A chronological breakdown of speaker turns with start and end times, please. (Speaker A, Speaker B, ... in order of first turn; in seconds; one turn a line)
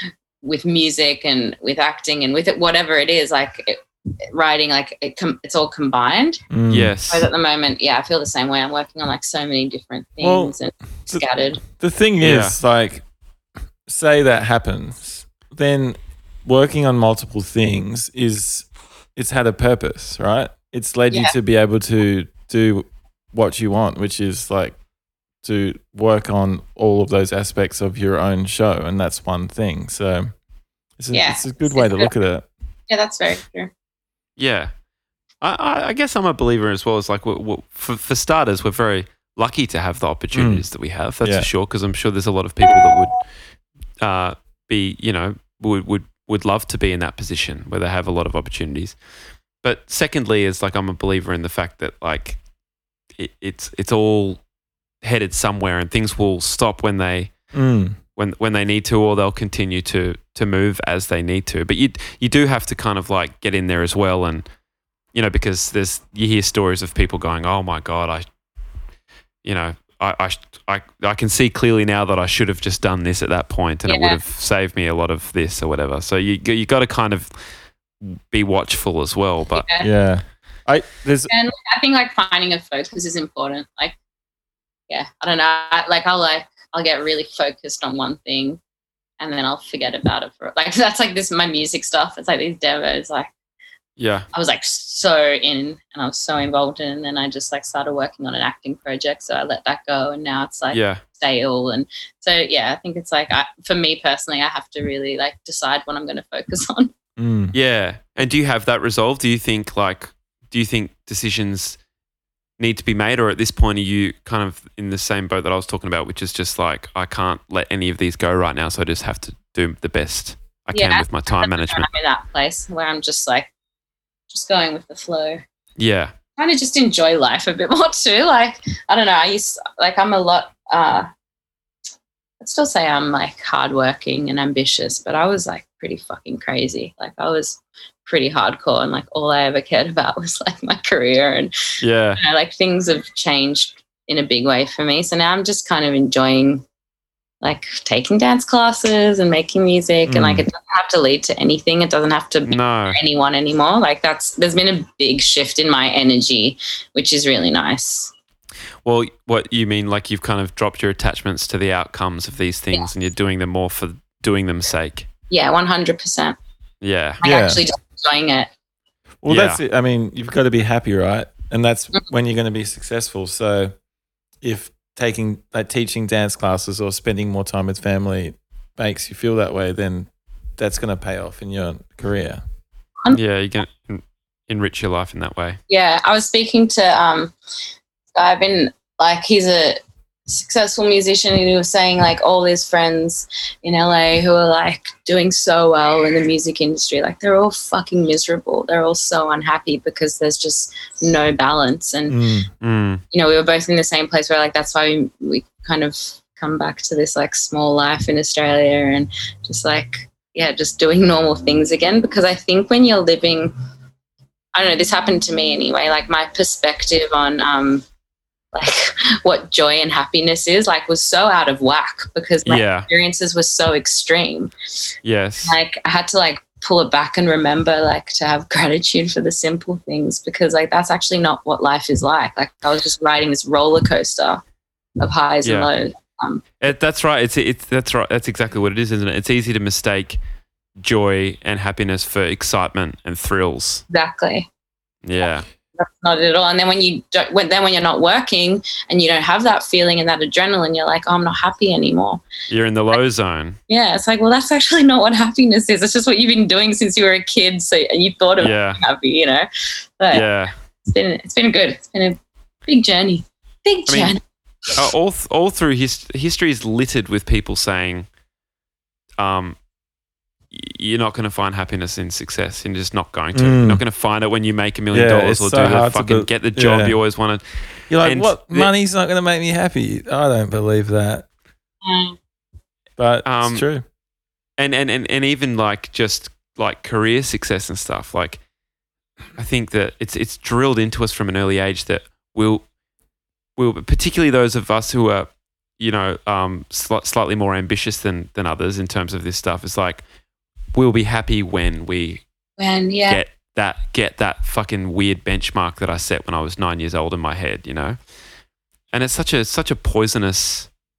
Speaker A: 0.4-6.4
Speaker B: 6.5-6.9
Speaker C: 6.7-7.3
Speaker A: 7.1-11.6
Speaker B: 10.2-10.5
Speaker B: 11.1-13.0
Speaker C: 12.2-12.6
Speaker B: 13.9-24.8
Speaker B: 25.4-30.3
Speaker B: 31.0-32.5
Speaker A: 31.1-32.1
Speaker A: 32.9-33.7
Speaker C: 34.4-34.7
Speaker C: 35.4-43.2
Speaker B: 40.3-40.7
Speaker B: 41.2-41.5
Speaker C: 44.0-49.0
Speaker C: 49.6-52.4
Speaker C: 53.2-54.4
Speaker C: 55.0-57.4
Speaker B: 57.5-58.0
Speaker C: 58.1-64.5
Speaker C: 65.1-68.2
Speaker C: 69.4-77.5
Speaker A: 73.9-74.2
Speaker C: 78.0-79.6
Speaker A: 79.5-79.9
Speaker B: 79.8-81.3
Speaker A: 81.3-83.9
Speaker A: 84.9-88.6
Speaker A: 89.2-93.3
Speaker C: 94.0-94.2
Speaker A: 94.3-106.9
Speaker C: 100.7-101.0
Speaker B: 107.2-107.5
Speaker C: 107.5-111.8
Speaker C: 112.6-121.9
Speaker A: 120.7-123.5
Speaker A: 124.3-125.4
Speaker C: 125.8-126.1
Speaker A: 126.4-131.1
Speaker A: 132.4-141.5
Speaker C: 141.8-142.2
Speaker A: 142.2-146.6
Speaker A: 147.4-158.1
Speaker B: 150.1-150.4
Speaker C: 152.4-153.0
Speaker C: 158.8-165.1
Speaker A: 165.3-166.4
Speaker C: 166.8-167.2
Speaker A: 167.2-168.5
Speaker B: 167.2-167.6
Speaker B: 169.2-173.7
Speaker C: 169.3-169.6
Speaker B: 174.4-182.4
Speaker C: 183.1-185.6
Speaker A: 185.7-187.3
Speaker A: 188.1-202.2
Speaker B: 202.1-202.5
Speaker C: 202.6-203.0
Speaker A: 203.1-213.5
Speaker A: 214.5-217.8
Speaker A: 218.5-224.5
Speaker C: 222.4-222.9
Speaker C: 225.0-225.6
Speaker A: 225.4-234.4
Speaker A: 235.0-236.6
Speaker C: 235.4-235.7
Speaker C: 236.6-240.2
Speaker C: 240.8-243.8
Speaker A: 243.9-244.5
Speaker C: 245.0-245.4
Speaker A: 245.8-252.2
Speaker C: 252.5-253.6
Speaker A: 253.7-259.5
Speaker C: 258.4-258.8
Speaker A: 260.0-260.3
Speaker C: 260.1-260.5
Speaker A: 260.8-264.8
Speaker C: 263.9-264.1
Speaker C: 264.8-268.1
Speaker C: 269.2-269.6
Speaker C: 270.5-278.7
Speaker B: 273.3-273.8
Speaker B: 274.9-276.9
Speaker B: 277.9-281.2
Speaker A: 281.8-282.2
Speaker B: 283.0-283.8
Speaker C: 283.2-283.6
Speaker C: 284.6-288.4
Speaker C: 289.4-292.6
Speaker C: 293.6-300.0
Speaker C: 300.7-302.2
Speaker A: 302.6-303.2
Speaker C: 303.1-308.0
Speaker C: 308.9-310.7